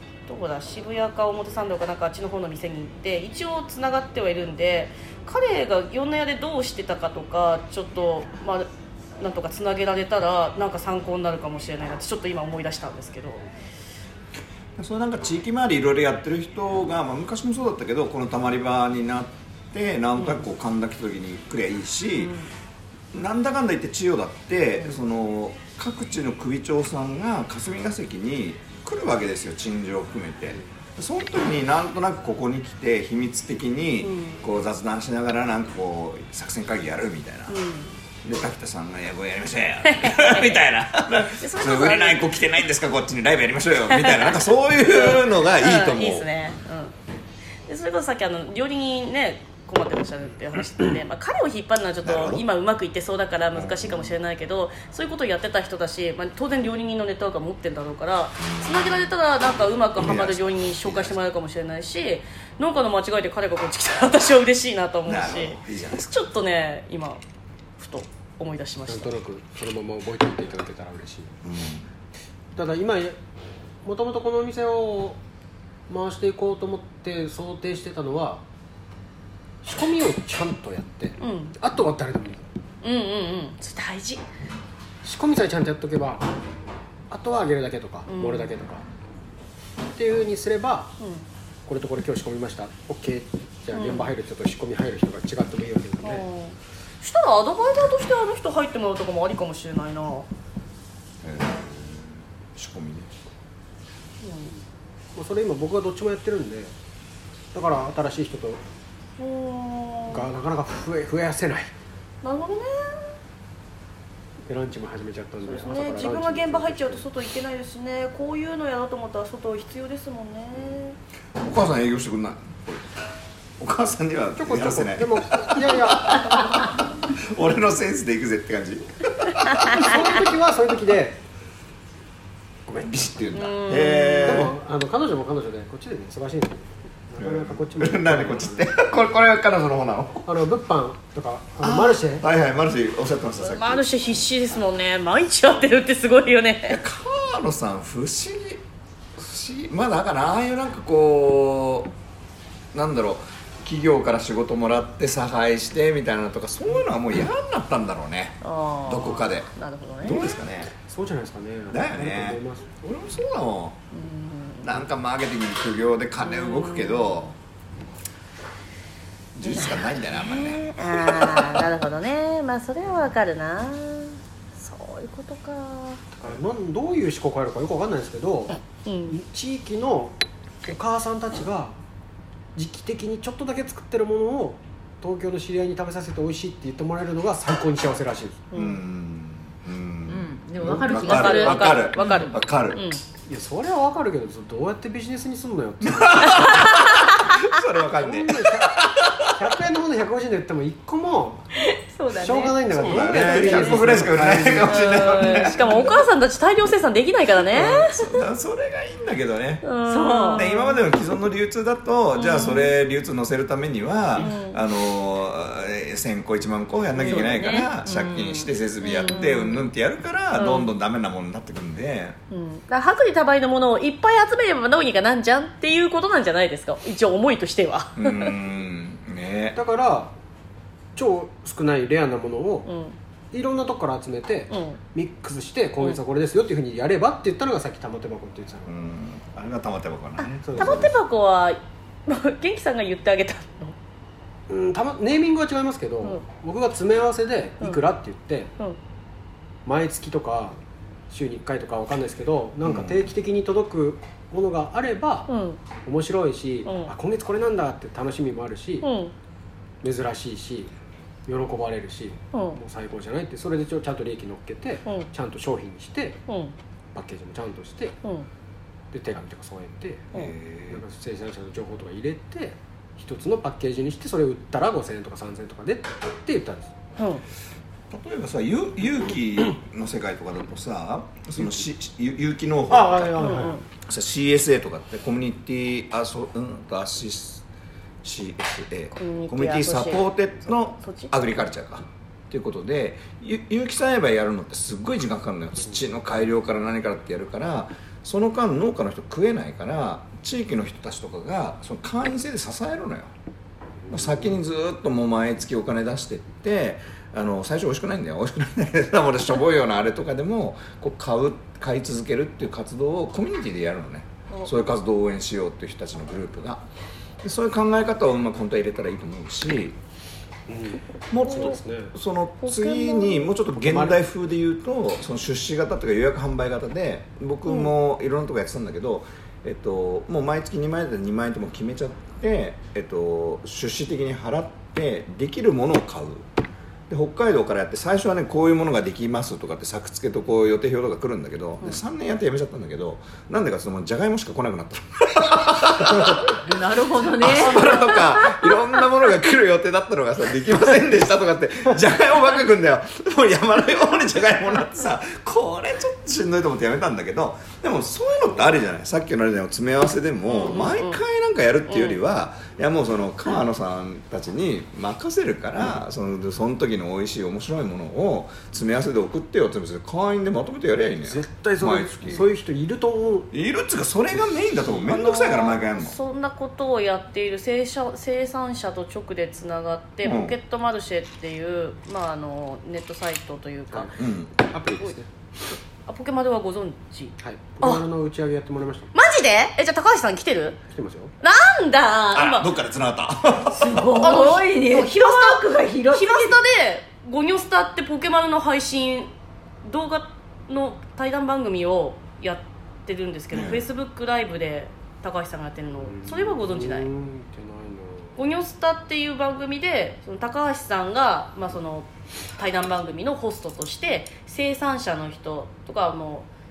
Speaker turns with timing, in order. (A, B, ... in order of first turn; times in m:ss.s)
0:00.3-0:08.7 A
0:09.2-0:13.5 A
0:14.8-0:22.3 B
0:20.2-0:20.4 A
0:22.2-0:22.5 A
0:23.1-0:37.6 B
0:34.0-0:34.4 A
0:37.5-0:37.9 A
0:38.2-0:46.3 B
0:39.8-0:40.6 A
0:41.4-0:42.3 A
0:43.9-0:46.9 A
0:47.7-1:07.2 A
0:52.0-0:52.4 B
0:53.6-0:54.1 B
0:58.4-0:59.1 B
1:00.0-1:01.2 B
1:05.1-1:06.2 B
1:07.8-1:09.2 A
1:08.9-1:11.4 C
1:11.4-1:11.9 B
1:12.6-1:13.2 C
1:13.8-1:15.2 C
1:15.9-1:18.4 C
1:19.6-1:22.5 C
1:21.2-1:21.6 A
1:22.8-1:24.2 A
1:25.0-1:26.2 C
1:27.1-1:28.9 C
1:28.1-1:28.5 A
1:30.0-1:31.0 C
1:31.0-1:31.2 A
1:31.7-1:36.3 C
1:33.7-1:34.1 A
1:36.0-1:40.3 A
1:41.2-1:43.1 B
1:44.2-1:44.5 A
1:45.2-1:46.7 C
1:47.5-1:48.6 C
1:49.2-1:50.3 A
1:50.1-1:51.7 C
1:52.2-1:53.1 A
1:54.5-1:57.0 C
1:55.4-2:01.0 A
2:01.4-2:02.9 B
2:03.6-2:10.1 B
2:04.4-2:06.5 C
2:09.6-2:11.2 C
2:12.7-2:13.1 C
2:12.8-2:14.6 B
2:13.4-2:14.5 A
2:14.2-2:18.7 C
2:17.2-2:20.3 B
2:20.3-2:22.2 C
2:21.6-2:23.9 B
2:23.4-2:26.8 A
2:26.7-2:28.6 B
2:29.2-2:31.9 B
2:32.7-2:39.5 B
2:38.4-2:40.4 A
2:40.0-2:40.7 B
2:40.8-2:42.7 C
2:41.7-2:43.8 B
2:43.9-2:44.8 A
2:44.6-2:47.4 B
2:46.2-2:47.3 A
2:49.4-2:51.6 B
2:49.4-2:56.0 A
2:56.1-3:01.8 C
2:58.8-2:59.2 A
3:02.6-3:08.5 C
3:08.5-3:08.8 A
3:08.6-3:12.8 B
3:10.1-3:12.3 D
3:11.0-3:13.0 A
3:13.3-3:16.7 C
3:15.8-3:19.3 B
3:16.4-3:17.3 A
3:18.0-3:21.4 C
3:21.6-3:24.0 D
3:22.2-3:25.5 C
3:22.7-3:26.1 B
3:24.6-3:28.2 A
3:27.5-3:29.6 B
3:29.6-3:30.7 A
3:29.8-3:30.6 D
3:30.3-3:42.2 B
3:32.2-3:32.7 A
3:34.2-3:34.6 A
3:37.0-3:37.7 A
3:37.8-3:38.5 D
3:38.8-3:39.7 A
3:40.4-3:40.7 A
3:42.3-3:48.4 A
3:48.0-3:49.6 B
3:49.6-3:50.1 C
3:51.0-3:52.7 C
3:52.7-3:53.0 A
3:53.3-3:58.7 C
3:54.5-3:54.8 A
3:58.7-4:00.9 B
4:00.2-4:03.8 A
4:00.4-4:01.0 C
4:04.5-4:08.5 C
4:09.6-4:10.6 C
4:11.1-4:15.3 C
4:12.6-4:13.1 B
4:15.3-4:15.6 A
4:15.8-4:18.9 C
4:16.6-4:16.9 A
4:18.8-4:19.1 A
4:19.8-4:20.7 C
4:21.3-4:26.2 C
4:22.3-4:22.6 A
4:26.3-4:26.5 A
4:26.9-4:28.0 C
4:28.9-4:30.1 C
4:30.1-4:30.8 B
4:30.7-4:36.7 C
4:37.0-4:37.2 A
4:37.9-4:47.4 B
4:42.7-4:43.6 C
4:43.2-4:43.6 A
4:48.0-5:03.1 B
4:49.0-4:50.1 A
4:50.8-4:51.1 A
5:03.8-5:04.4 C
5:03.9-5:16.7 B
5:17.2-5:19.8 B
5:20.5-5:21.9 C
5:21.1-5:36.3 B
5:21.3-5:21.6 A
5:22.4-5:23.3 A
5:23.6-5:24.0 C
5:27.5-5:27.7 A
5:36.9-5:46.5 B
5:46.2-5:48.1 D
5:47.1-6:12.3 B
6:00.3-6:01.0 A
6:01.7-6:02.0 A
6:11.0-6:13.3 C
6:13.3-6:16.0 B
6:14.8-6:23.9 A
6:20.0-6:20.4 B
6:23.7-6:25.1 C
6:24.0-6:24.3 B
6:25.9-6:27.9 A
6:27.2-6:28.9 C
6:28.9-6:30.6 A
6:30.7-6:31.1 C
6:31.2-6:32.5 A
6:32.1-6:34.0 B
6:33.5-6:36.4 D
6:34.0-6:39.1 A
6:39.6-6:46.9 A
6:43.3-6:43.7 B
6:45.9-6:48.2 C
6:48.2-6:56.3 A